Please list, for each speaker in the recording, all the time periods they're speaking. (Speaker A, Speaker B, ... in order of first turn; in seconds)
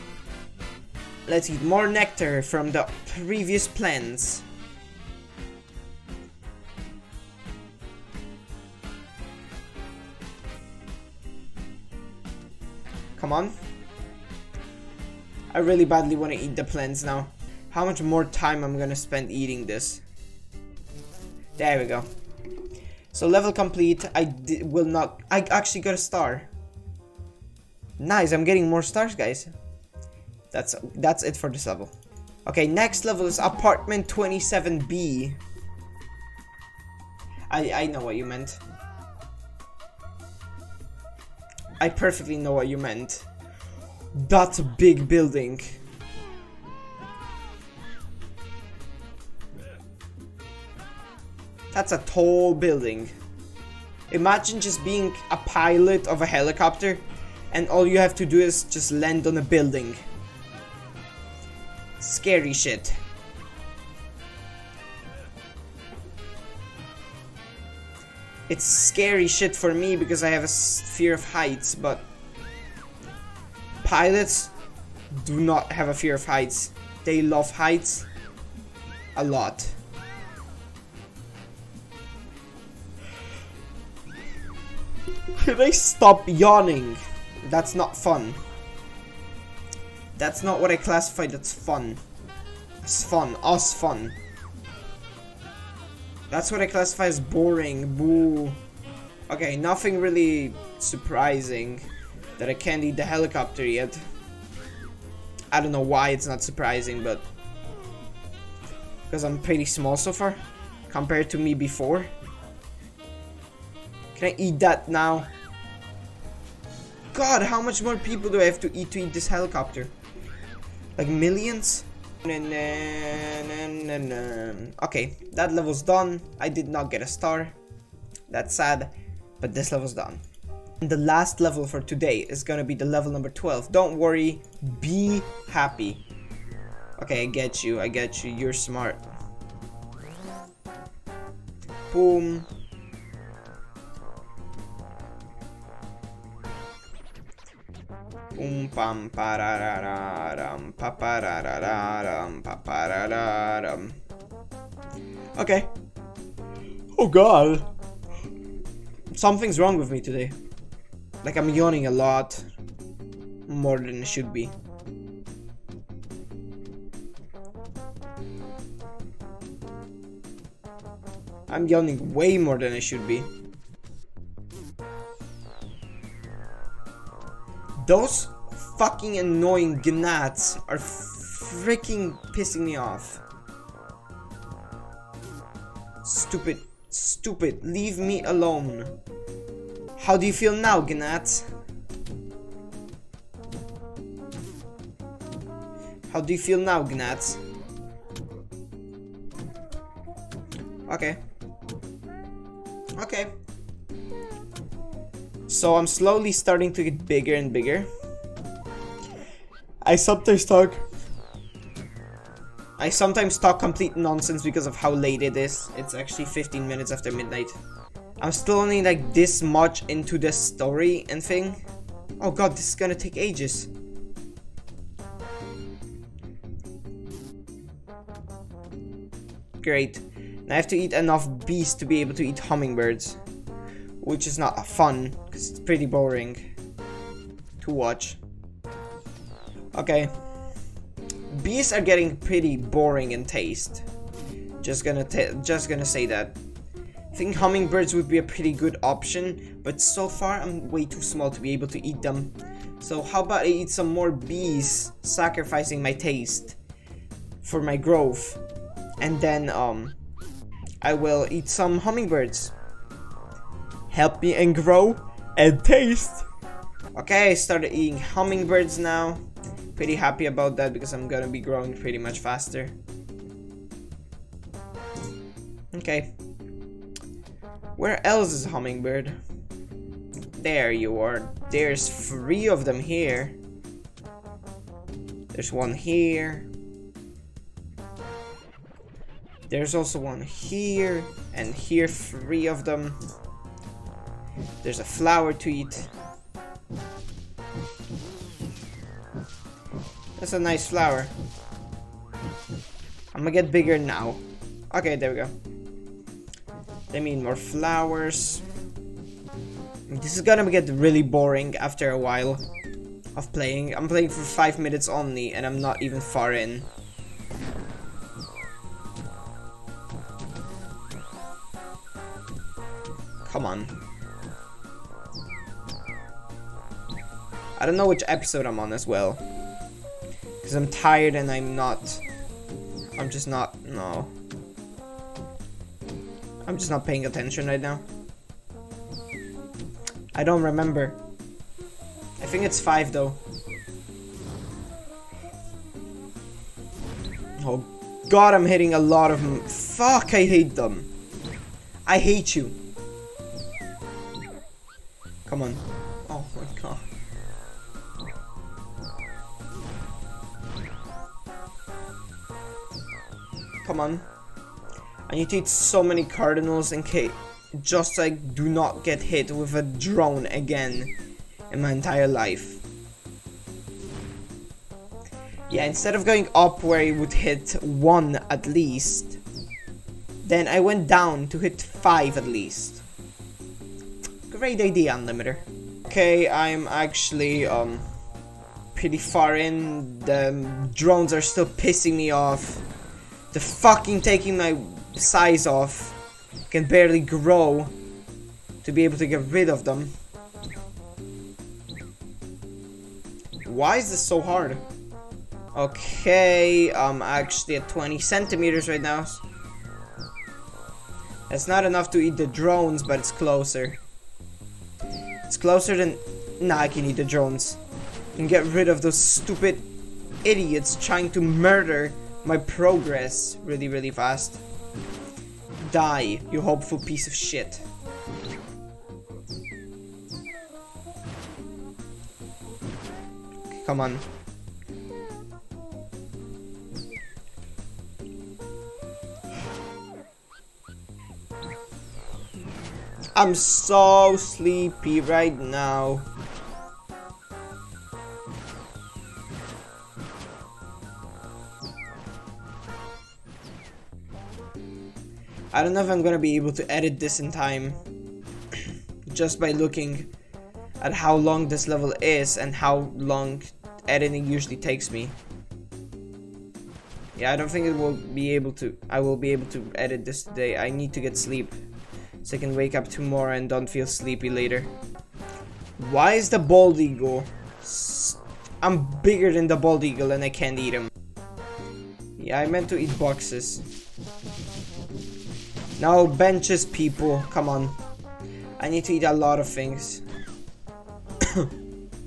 Speaker A: 1.3-4.4, 13.2-13.6, 15.5-20.0, 21.6-22.1, 23.1-26.5, 28.0-29.5, 30.5-31.9, 32.5-35.4, 37.5-38.6, 41.8-43.2, 44.1-45.8, 51.7-53.1, 54.1-60.0, 62.0-63.0, 68.5-72.0, 73.8-74.5, 75.1-78.1, 79.1-79.8, 85.3-88.4, 90.2-92.0, 92.8-94.2, 96.3-98.6, 99.3-101.8, 102.4-104.0, 105.5-107.2, 109.1-112.1, 114.1-115.3, 117.1-119.9, 121.0-127.5, 128.3-130.2, 130.8-136.0, 137.0-139.0, 141.9-142.5, 148.3-154.0, 155.3-155.7, 156.9-157.7, 159.1-160.3, 161.2-162.5, 163.5-164.5, 171.5-173.3, 177.8-183.2, 186.0-188.9, 190.0-191.5, 196.1-197.4, 200.9-201.2, 203.0-203.3, 205.5-207.9, 209.8-210.8, 212.8-217.6, 218.2-221.6, 222.2-223.7, 229.6-233.2, 234.0-236.4, 237.6-238.2, 239.7-240.1, 241.3-243.8, 244.6-246.4, 247.1-256.6, 257.4-258.4, 259.0-259.9, 260.8-262.5, 263.9-266.2, 266.9-269.2, 269.7-272.8, 275.7-276.1, 277.8-279.2, 280.4-283.4, 285.3-286.5, 289.5-293.0, 294.6-295.9, 300.2-301.1, 303.1-305.3, 306.9-308.4, 309.9-312.4, 313.1-316.7, 323.2-323.8, 327.6-329.2, 330.4-332.0, 332.9-334.1, 336.4-337.8, 340.1-341.0, 342.2-343.2, 347.4-350.9, 351.9-352.6, 355.2-356.8, 363.6-364.1, 365.1-370.9, 371.5-372.6, 375.5-379.2, 380.2-382.8, 384.3-387.8, 388.7-392.6, 393.3-396.0, 396.5-397.7, 398.6-399.9, 403.4-404.6, 405.5-409.2, 411.3-413.8, 415.3-417.6, 418.1-419.7, 420.2-424.4, 425.6-427.6, 433.5-434.0, 443.1-446.1, 455.5-457.8, 459.1-460.1, 460.8-465.1, 467.1-471.6, 472.2-474.7, 475.8-480.9, 482.2-483.6, 485.8-487.8, 488.6-490.0